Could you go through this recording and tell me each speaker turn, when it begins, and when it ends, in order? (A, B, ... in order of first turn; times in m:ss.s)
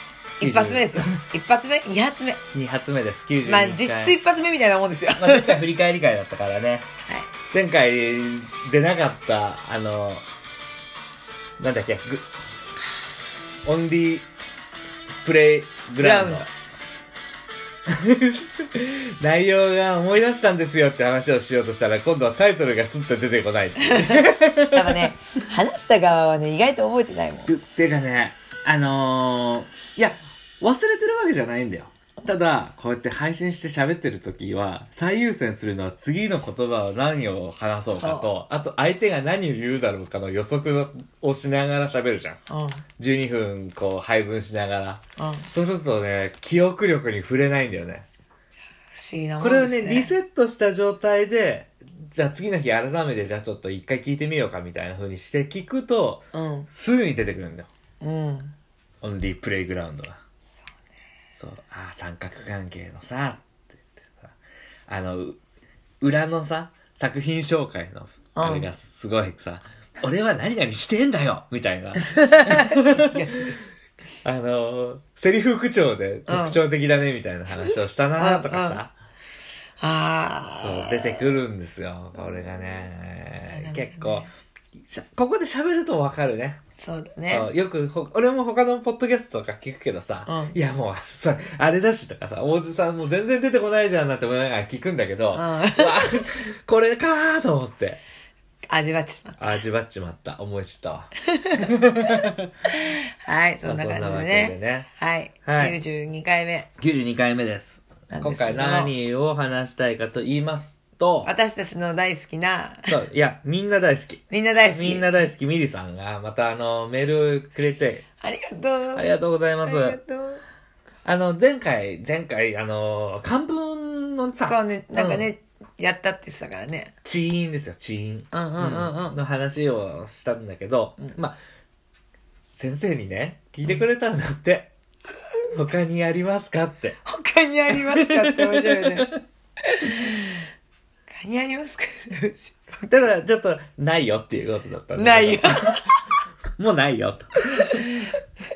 0:00.4-0:02.4 A
0:00.4-0:01.2 B
0:02.5-0:04.2 B
0:03.4-0:05.6 A
0:05.2-0:06.9 B
0:07.5-0:10.3 B
0:11.6-0:12.3 B
0:13.6-0:14.3 B
0:15.2-0:16.5 B
0:16.0-0:16.5 A
0:17.9-0:25.1 B
0:23.8-0:27.5 A
0:27.5-0:42.4 B
0:38.0-0:38.3 A
0:42.5-0:42.8 A
0:43.0-0:48.1 B
0:45.2-0:45.5 A
0:48.9-0:50.1 A
0:49.4-0:57.7 B
0:56.3-0:56.7 A
0:58.0-0:58.6 A
0:59.0-1:00.2 B
1:01.4-1:04.4 B
1:04.9-1:05.4 B
1:06.0-1:13.0 B
1:08.4-1:08.7 A
1:12.0-1:13.6 A
1:14.2-1:18.9 B
1:16.3-1:16.6 A
1:17.5-1:18.8 A
1:19.8-1:21.4 A
1:20.6-1:24.3 B
1:23.5-1:24.3 A
1:24.8-1:26.6 B
1:26.8-1:27.5 A
1:27.3-1:38.0 B
1:30.3-1:30.6 A
1:35.3-1:36.2 A
1:38.7-1:39.4 A
1:39.4-1:42.5 B
1:41.4-1:41.7 A
1:42.7-1:46.7 A
1:43.6-1:44.9 B
1:45.5-1:45.8 B
1:46.8-1:51.3 B
1:48.1-1:48.9 A
1:51.2-1:52.9 A
1:52.9-1:58.0 B
1:54.3-1:55.3 A
1:58.2-1:59.1 A
1:59.0-2:00.0 B
1:59.6-2:00.4 A
2:01.0-2:05.3 B
2:04.4-2:06.9 A
2:07.0-2:11.4 B
2:08.3-2:09.2 A
2:12.6-2:14.7 B
2:15.5-2:17.0 B
2:17.0-2:20.5 A
2:17.7-2:19.2 B
2:21.1-2:22.9 A
2:22.9-2:25.8 B
2:25.0-2:26.0 A
2:26.6-2:27.6 B
2:27.6-2:28.2 A